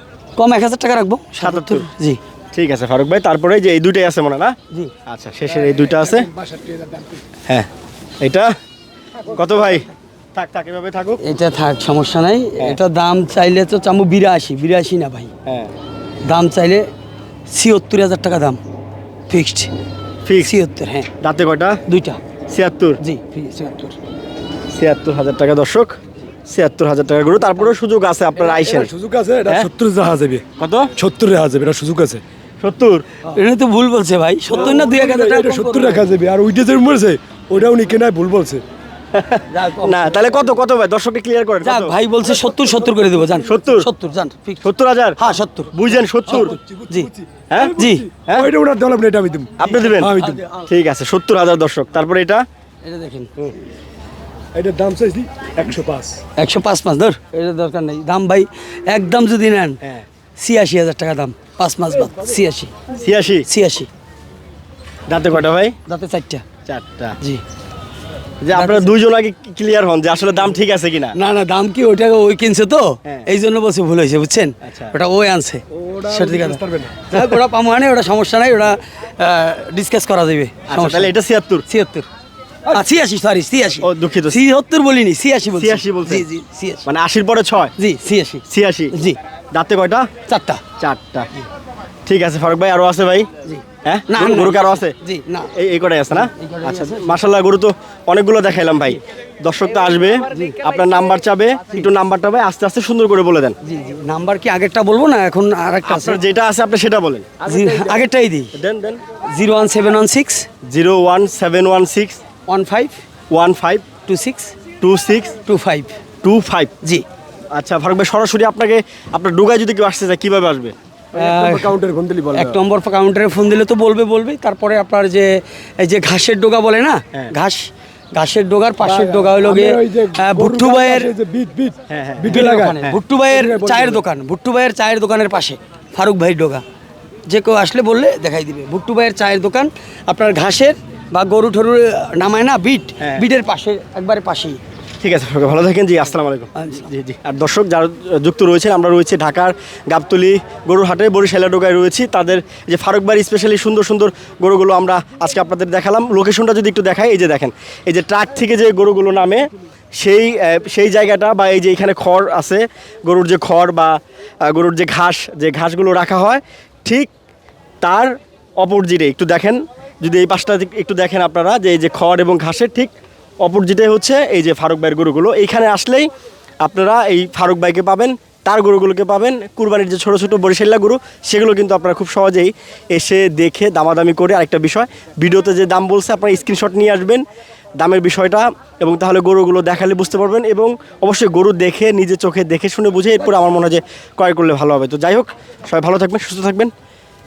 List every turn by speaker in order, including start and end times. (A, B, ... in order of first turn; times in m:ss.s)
0:00.4-0:02.2 A
0:01.4-0:01.9 B
0:02.5-0:06.3 B
0:06.3-0:07.2 C
0:08.2-0:08.5 B
0:09.2-0:11.2 B
0:11.2-0:15.3 A
0:15.4-0:15.7 B
0:16.2-0:16.9 A
0:17.5-0:18.6 A
0:19.3-0:19.7 A
0:20.2-0:20.6 B
0:20.4-0:21.1 A
0:21.2-0:21.8 B
0:21.9-0:22.2 A
0:22.5-0:23.0 B
0:23.0-0:24.0 A
0:24.7-0:28.9 B
0:28.5-0:30.4 C
0:30.6-0:30.9 B
0:31.0-0:32.2 C
0:32.6-0:33.0 B
0:33.3-0:36.1 A
0:34.6-0:38.6 C
0:39.1-0:41.9 B
0:39.5-0:40.2 A
0:41.6-0:44.6 A
0:43.4-0:43.9 B
0:44.6-0:45.2 B
0:45.2-0:47.1 A
0:45.7-0:46.6 B
0:46.4-0:50.4 C
0:47.5-0:48.5 B
0:47.6-0:48.1 A
0:49.6-0:52.4 B
0:49.6-0:50.7 A
0:52.8-0:53.3 A
0:54.5-0:56.2 C
0:56.4-0:59.8 A
1:00.4-1:02.7 A
1:02.9-1:03.4 B
1:03.5-1:03.9 A
1:05.1-1:05.8 B
1:05.9-1:06.5 A
1:06.6-1:07.2 B
1:08.4-1:11.1 B
1:08.5-1:08.9 A
1:11.1-1:21.1 A
1:14.6-1:14.9 B
1:15.7-1:17.1 C
1:20.7-1:21.6 B
1:21.7-1:22.1 A
1:22.7-1:26.8 A
1:23.8-1:24.4 B
1:25.5-1:26.3 B
1:26.8-1:27.7 B
1:27.8-1:29.2 A
1:28.5-1:28.9 B
1:29.5-1:30.1 B
1:30.3-1:30.6 A
1:30.8-1:31.3 B
1:32.0-1:33.3 B
1:33.4-1:35.5 A
1:33.8-1:35.0 B
1:35.5-1:43.6 B
1:36.1-1:37.2 A
1:40.3-1:40.6 A
1:43.6-1:46.2 A
1:45.8-1:49.0 B
1:47.4-1:48.5 A
1:49.3-1:50.5 A
1:50.6-1:52.2 B
1:52.5-1:53.0 A
1:53.3-1:53.8 B
1:54.0-1:54.5 A
1:54.8-1:55.3 B
1:55.4-1:56.0 A
1:56.2-1:56.7 B
1:57.5-2:00.7 B
2:01.1-2:01.8 A
2:01.1-2:02.5 C
2:02.3-2:11.1 A
2:08.8-2:14.0 C
2:11.9-2:13.0 B
2:12.3-2:16.6 A
2:17.3-2:24.6 A
2:23.0-2:23.3 B
2:25.0-2:47.1 B
2:26.5-2:26.9 A
2:47.8-2:56.1 B
2:56.6-3:07.2 B
3:07.8-3:16.7 B